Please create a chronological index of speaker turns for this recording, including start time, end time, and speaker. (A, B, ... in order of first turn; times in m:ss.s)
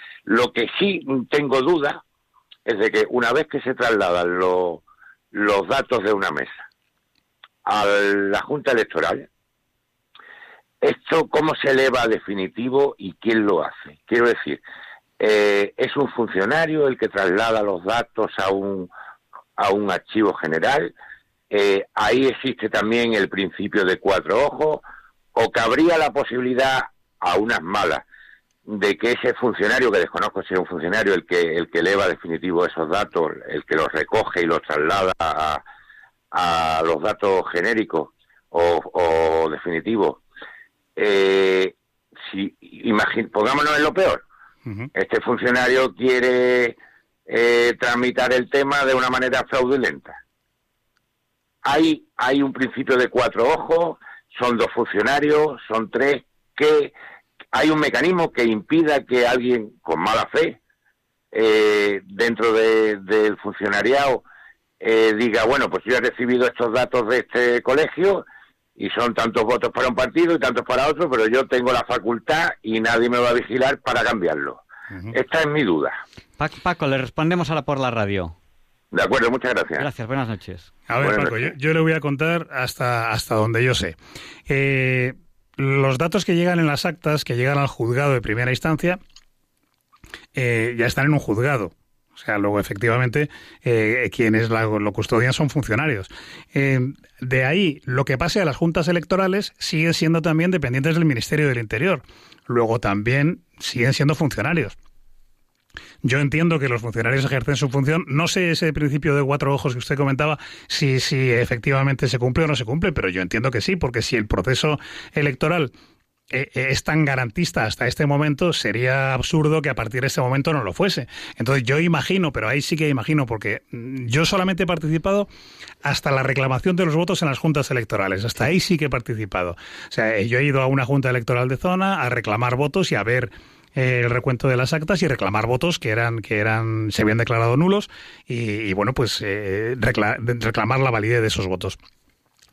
0:00.3-0:02.0 A
0:02.7-0:06.6 A
0:07.6-0:09.3 A
0:10.8-0:14.6 A
0:15.2-0:18.9 A
0:19.6-0:20.9 A
0:21.5-0:24.8 A
0:25.4-0:28.0 A
0:28.7-0:35.6 A
0:36.3-0:40.2 A
0:41.0-0:44.2 A
0:45.0-0:46.8 A
0:47.3-0:50.2 A
0:51.6-0:56.9 A
0:57.5-1:00.6 A
1:01.3-1:04.2 A
1:04.8-1:08.2 A
1:08.8-1:16.0 A
1:16.4-1:18.4 B
1:18.9-1:19.9 A
1:19.8-1:20.7 B
1:20.9-1:24.0 C
1:21.0-1:21.5 A
1:24.5-1:29.0 C
1:30.3-1:44.8 C
1:46.0-1:55.7 C
1:56.3-2:05.3 C
2:05.8-2:21.8 C